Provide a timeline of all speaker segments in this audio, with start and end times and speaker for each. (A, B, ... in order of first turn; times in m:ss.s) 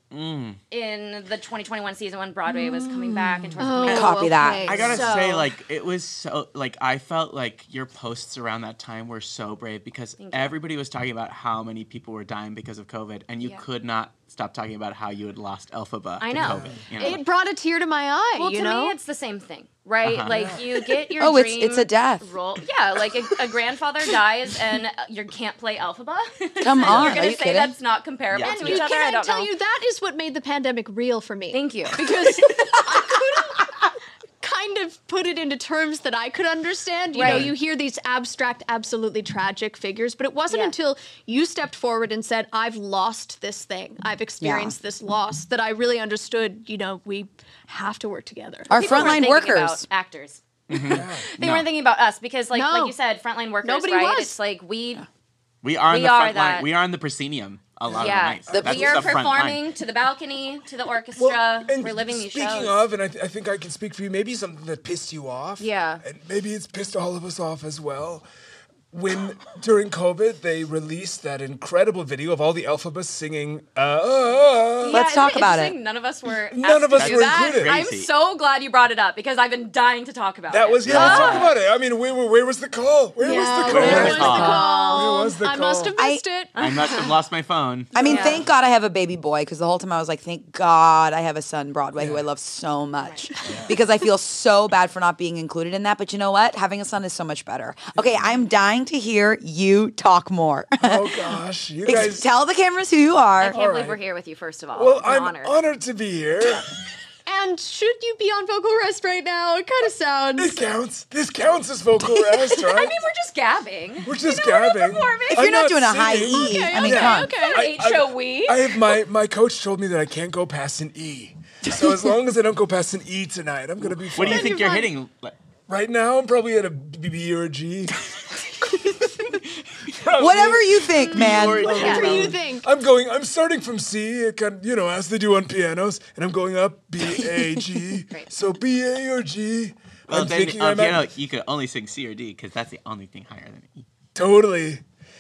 0:00.1-0:00.6 A
0:00.7-0:05.5 B
0:02.5-0:03.6 C
0:03.6-0:04.9 D
0:03.9-0:04.8 E
0:04.7-0:17.2 A
0:04.8-0:05.1 C
0:10.2-0:10.5 B
0:16.2-0:17.2 B
0:16.4-0:16.8 C
0:17.0-0:19.0 D
0:18.4-0:29.5 B
0:20.0-0:20.6 A
0:20.3-0:20.6 C
0:21.2-0:22.3 E
0:26.6-0:27.8 E
0:26.8-0:27.2 A
0:28.3-0:28.8 A
0:28.4-0:33.8 D
0:31.5-0:32.1 B
0:34.4-0:48.8 D
0:37.1-0:37.5 B
0:37.2-0:37.5 A
0:40.5-0:40.8 B
0:44.4-0:44.8 E
0:48.7-0:49.9 E
0:48.7-0:55.1 B
0:48.9-0:49.2 C
0:50.7-0:51.7 A
0:50.9-0:51.3 C
0:52.5-0:53.0 D
0:53.6-0:54.4 D
0:55.6-0:59.7 A
0:55.9-0:56.7 B
0:57.9-0:59.2 C
0:57.9-1:02.8 B
0:58.5-0:58.9 E
1:01.2-1:08.2 C
1:05.6-1:06.0 B
1:08.9-1:15.0 C
1:14.8-1:21.6 B
1:14.9-1:15.8 E
1:16.5-1:17.8 C
1:17.0-1:18.1 A
1:20.5-1:25.9 C
1:20.8-1:21.5 A
1:23.2-1:26.6 D
1:23.2-1:25.2 B
1:23.7-1:24.6 A
1:23.9-1:24.6 E
1:26.0-1:26.2 E
1:26.6-1:27.1 B
1:26.6-1:28.0 A
1:27.9-1:43.6 E
1:28.0-1:28.5 B
1:28.0-1:28.5 C
1:32.0-1:32.2 C
1:33.0-1:33.3 B
1:38.0-1:38.2 C
1:40.8-1:42.3 C
1:43.4-1:45.6 B
1:43.5-1:44.0 C
1:44.7-1:46.7 C
1:47.3-1:50.6 D
1:50.4-1:53.0 C
1:52.5-1:55.6 B
1:54.0-2:04.7 C
1:55.3-1:57.4 E
1:56.3-1:57.7 D
1:57.2-1:58.8 B
2:01.7-2:02.0 E
2:04.1-2:05.4 A
2:04.3-2:04.9 D
2:05.7-2:08.0 C
2:09.9-2:21.1 C
2:10.2-2:12.0 E
2:11.1-2:12.4 A
2:11.6-2:12.2 B
2:11.7-2:12.7 D
2:17.2-2:17.6 E
2:20.1-2:23.9 A
2:24.2-2:24.8 C